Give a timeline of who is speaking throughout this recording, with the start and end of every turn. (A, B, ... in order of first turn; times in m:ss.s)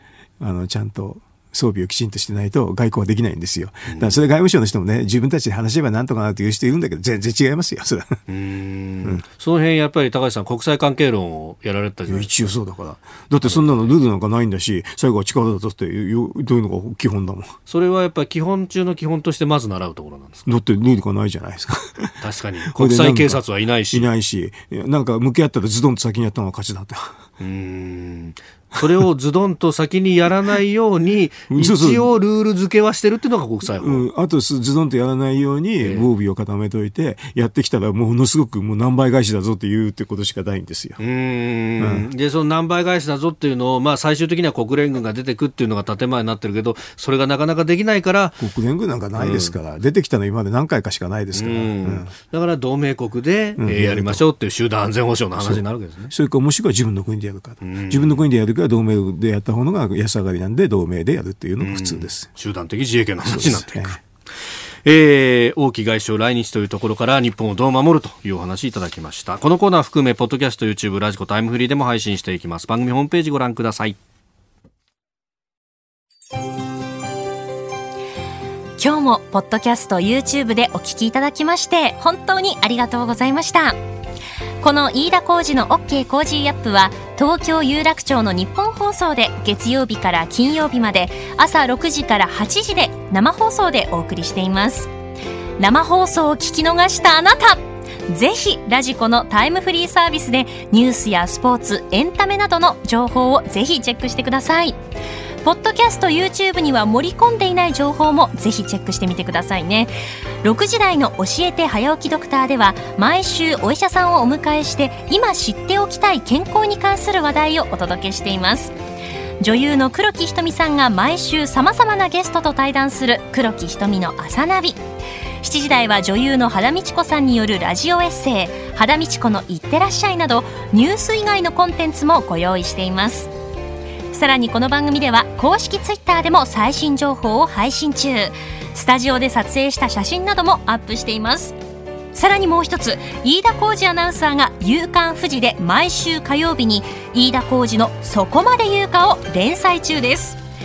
0:00.4-0:08.2 A
0:03.8-0:04.2 B
0:08.3-0:12.5 B
0:12.1-0:17.5 A
0:13.4-0:13.9 B
0:17.7-0:20.5 B
0:20.4-0:22.1 A
0:22.2-0:24.1 B
0:22.7-0:27.2 A
0:27.4-0:34.0 B
0:31.5-0:32.1 A
0:33.7-0:41.0 A
0:35.8-0:36.1 B
0:41.0-0:48.4 B
0:41.8-0:42.1 A
0:48.4-0:52.1 A
0:49.2-0:49.6 B
0:51.3-0:56.1 B
0:53.6-0:54.2 A
0:55.4-1:02.3 A
0:57.6-0:58.2 B
1:01.6-1:04.0 B
1:03.2-1:04.0 A
1:04.8-1:14.0 B
1:18.8-1:23.8 C
1:24.6-1:34.9 C
1:35.6-1:44.8 C
1:45.4-1:49.9 C
1:50.4-1:58.7 C
1:59.4-2:04.8 C
2:05.4-2:13.3 C
2:14.1-2:21.6 C
2:22.1-2:30.4 C